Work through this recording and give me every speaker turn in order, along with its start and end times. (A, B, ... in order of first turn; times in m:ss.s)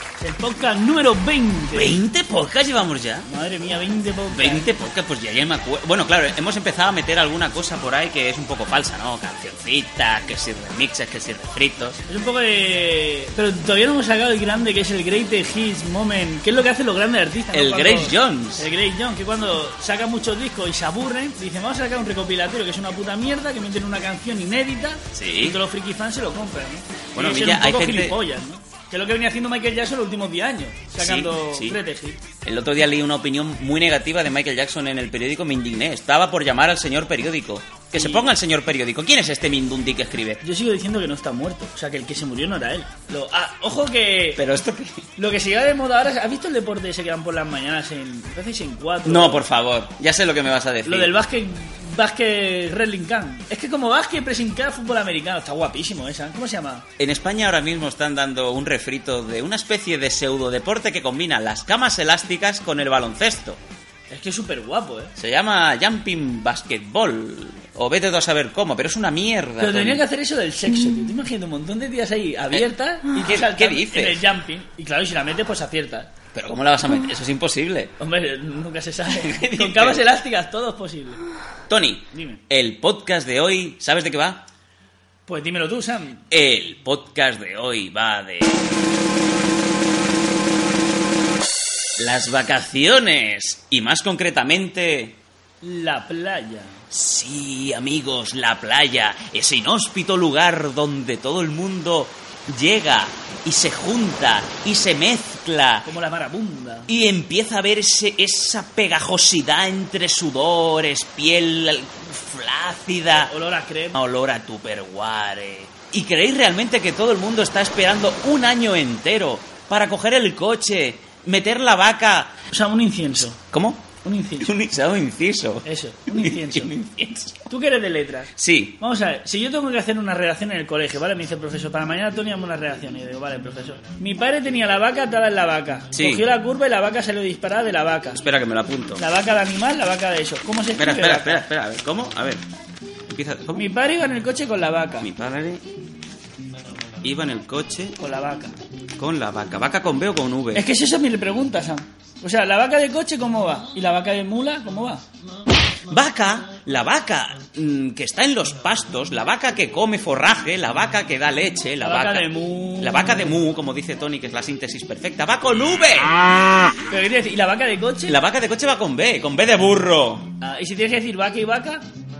0:00.2-0:02.0 A
0:01.7-0:03.3 B
0:03.2-0:04.7 A
0:04.3-0:12.0 B
0:12.1-0:32.2 A
0:17.5-0:18.7 B
0:25.1-0:25.6 B
0:27.1-0:28.2 B
0:31.0-0:31.8 B
0:32.4-0:40.4 B
0:38.0-0:38.3 A
0:40.4-0:44.4 A
0:44.4-0:45.0 B
0:45.2-0:49.4 A
0:49.0-0:51.2 B
0:50.8-0:56.8 A
0:57.0-1:03.6 B
1:04.1-1:05.1 A
1:05.2-1:10.0 B
1:09.6-1:16.1 A
1:12.5-1:14.2 B
1:16.3-1:17.9 B
1:18.0-1:21.2 A
1:19.1-1:20.1 B
1:21.7-1:24.5 B
1:22.1-1:22.4 A
1:25.3-1:26.2 A
1:26.3-1:28.7 B
1:32.0-1:35.2 B
1:35.6-1:36.8 A
1:36.9-1:45.9 B
1:45.9-1:46.9 A
1:46.9-1:53.3 B
1:53.1-1:54.0 A
1:53.9-2:02.4 B
2:02.5-2:03.4 A
2:03.2-2:07.5 B
2:04.0-2:04.5 A
2:05.6-2:06.7 A
2:07.5-2:18.2 A
2:08.4-2:08.8 B
2:15.9-2:16.2 B
2:18.1-2:19.1 B
2:19.0-2:21.4 A
2:20.8-2:22.4 B
2:23.1-2:23.7 B
2:23.6-2:25.1 A
2:25.0-2:25.6 B
2:27.0-2:28.0 B
2:28.0-2:28.6 A
2:29.0-2:30.7 B
2:30.5-2:35.0 A
2:35.9-2:46.2 B
2:41.8-2:43.4 A
2:46.9-2:48.2 A
2:48.0-2:50.3 B
2:50.4-2:51.9 A